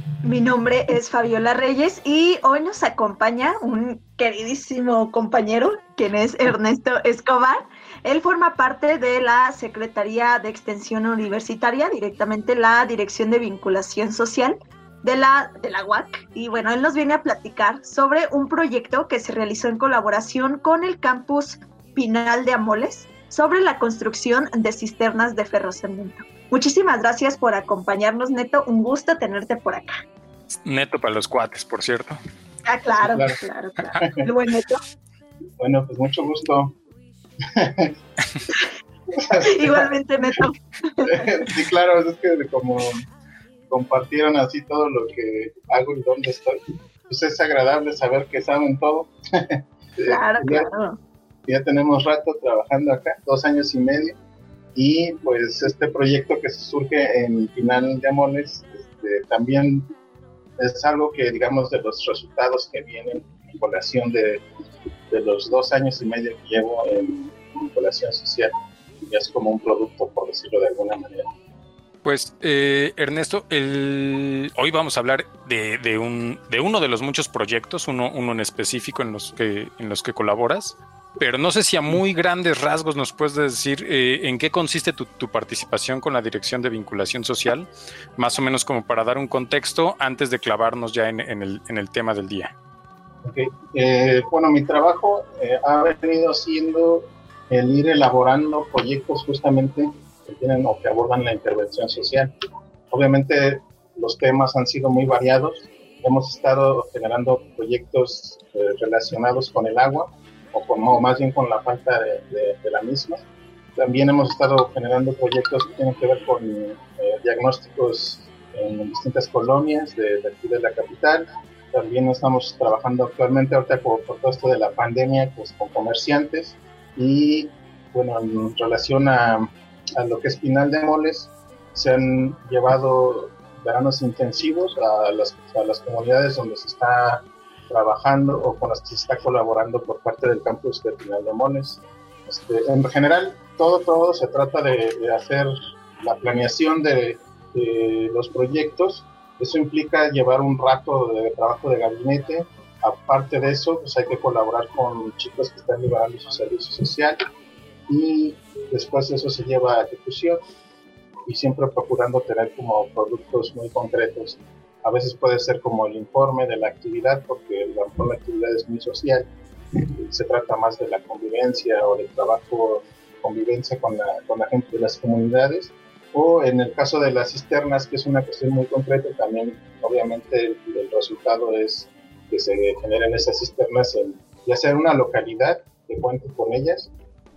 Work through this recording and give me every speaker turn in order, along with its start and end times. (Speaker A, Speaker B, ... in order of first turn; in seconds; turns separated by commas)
Speaker A: 0.2-30.0, Speaker B: 30.6-32.2, Speaker A: 32.7-34.8, Speaker C: 33.0-33.4, Speaker C: 34.0-34.3, Speaker C: 35.6-36.8, Speaker C: 37.4-37.9, Speaker C: 39.1-40.4, Speaker A: 39.3-41.4, Speaker C: 41.0-43.0, Speaker C: 43.7-50.7, Speaker A: 50.1-51.0, Speaker C: 51.5-54.2, Speaker C: 54.8-59.9, Speaker C: 60.6-64.4, Speaker C: 65.1-71.3, Speaker B: 72.0-92.5, Speaker C: 93.2-102.3, Speaker C: 102.9-113.2, Speaker C: 113.8-145.5, Speaker C: 146.0-157.2, Speaker C: 157.9-160.4, Speaker C: 161.2-186.9